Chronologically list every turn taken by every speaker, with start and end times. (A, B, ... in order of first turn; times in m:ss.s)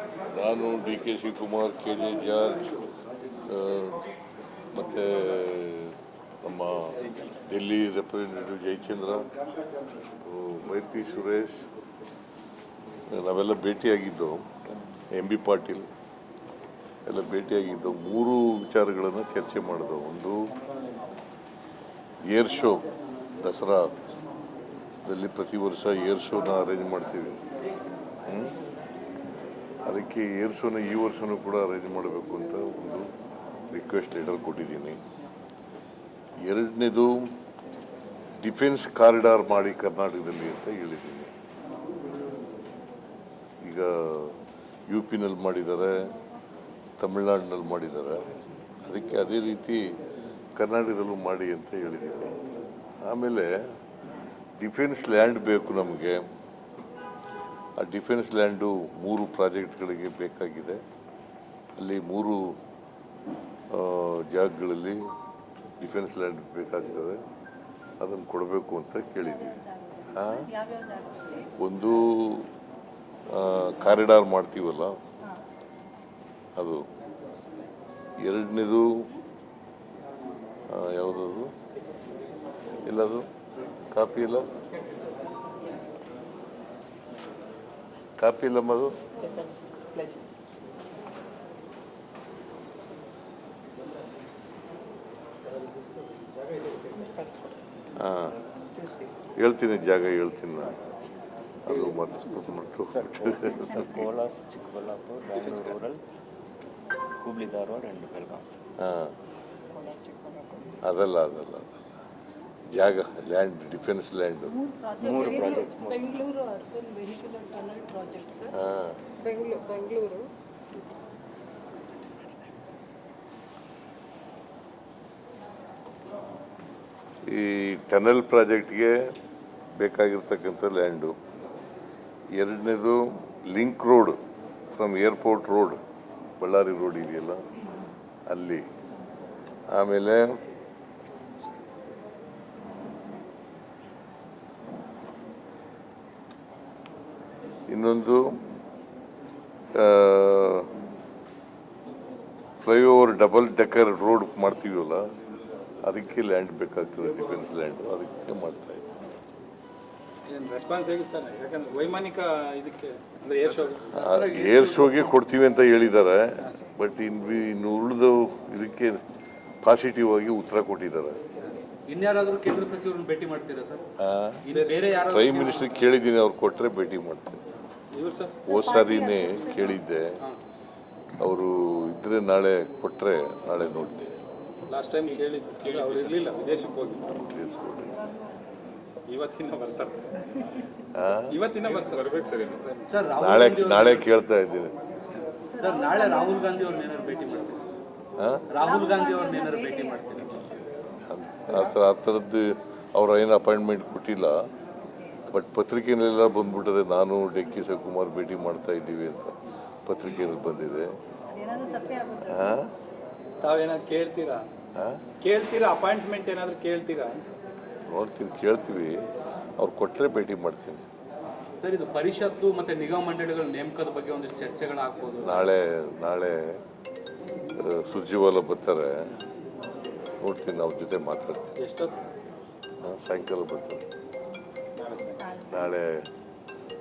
0:00.3-0:02.7 A
0:03.5-0:04.0 A
0:04.7-0:09.2 A
0:10.2-0:11.6 A
0:13.1-0:14.4 A
0:15.1-0:15.8 A
0:17.1-0:20.5 A
0:22.3-0:23.9 A
0:25.0-0:27.4 A
0:28.3-0:28.6 A
0:29.8-0:33.1 A
0:33.7-0:35.0 A
0:36.4-0:37.3 A
0:38.4-0:41.3 A
0:43.6-0:46.1 A
0:47.0-0:48.2 A
0:48.8-0:49.9 A
0:50.6-0:52.4 A
0:53.0-0:53.6 A
0:54.6-0:56.2 A
0:57.8-1:00.8 A
1:01.8-1:02.6 A
1:03.7-1:05.0 A
1:05.8-1:07.2 A
1:08.0-1:09.6 A
1:09.2-1:11.5 B
1:10.1-1:10.5 A
1:11.6-1:12.5 A
1:13.3-1:14.9 A
1:16.6-1:16.8 A
1:18.2-1:19.0 A
1:20.7-1:21.5 A
1:22.8-1:23.3 A
1:23.9-1:24.4 A
1:28.2-1:28.9 A
1:29.2-1:30.4 C
1:36.9-1:37.6 C
1:38.0-1:38.4 A
1:38.8-1:39.1 C
1:39.4-1:40.8 A
1:41.6-1:44.0 A
1:41.6-1:46.0 D
1:45.3-1:45.7 E
1:47.2-1:48.6 D
1:48.8-1:49.1 A
1:49.7-1:50.8 C
1:50.8-1:51.9 A
1:52.7-1:54.5 A
1:54.5-1:55.7 B
1:55.0-1:56.1 D
1:55.0-1:58.6 C
1:58.5-1:59.0 A
1:59.2-2:01.0 C
2:07.2-2:09.1 A
2:09.8-2:11.2 A
2:12.3-2:14.2 A
2:14.7-2:15.8 A
2:16.4-2:17.4 A
2:18.3-2:18.6 A
2:19.7-2:20.4 A
2:27.7-2:28.4 A
2:29.7-2:30.7 A
2:32.6-2:35.0 A
2:35.8-2:38.9 A
2:40.2-2:43.9 E
2:43.4-2:45.2 F
2:43.9-2:49.0 A
2:49.6-2:51.2 A
2:51.9-2:53.8 F
2:54.0-2:54.4 A
2:54.4-2:55.9 F
2:54.5-2:54.8 E
2:55.0-2:57.4 A
2:57.9-2:58.5 E
2:58.5-2:59.8 B
2:58.5-3:00.1 A
3:01.2-3:04.2 A
3:04.7-3:07.2 E
3:05.0-3:06.3 F
3:07.2-3:08.0 A
3:08.0-3:08.4 B
3:09.1-3:10.2 E
3:10.9-3:11.3 A
3:11.3-3:13.0 E
3:12.9-3:14.1 F
3:13.2-3:14.7 A
3:15.5-3:17.3 B
3:15.5-3:17.6 F
3:18.2-3:18.4 A
3:18.5-3:20.6 F
3:18.6-3:20.1 B
3:21.1-3:24.4 A
3:24.8-3:25.2 B
3:25.3-3:29.3 A
3:29.8-3:30.9 A
3:31.3-3:32.6 B
3:32.2-3:32.6 A
3:33.4-3:34.5 E
3:34.8-3:35.0 A
3:35.2-3:37.3 E
3:37.9-3:39.0 A
3:39.6-3:40.8 A
3:41.6-3:45.4 F
3:45.2-3:46.6 A
3:47.6-3:49.0 A
3:50.2-3:51.5 A
3:51.6-3:52.0 E
3:52.8-3:53.8 A
3:54.8-3:55.4 E
3:55.2-3:55.8 B
3:55.5-3:56.0 A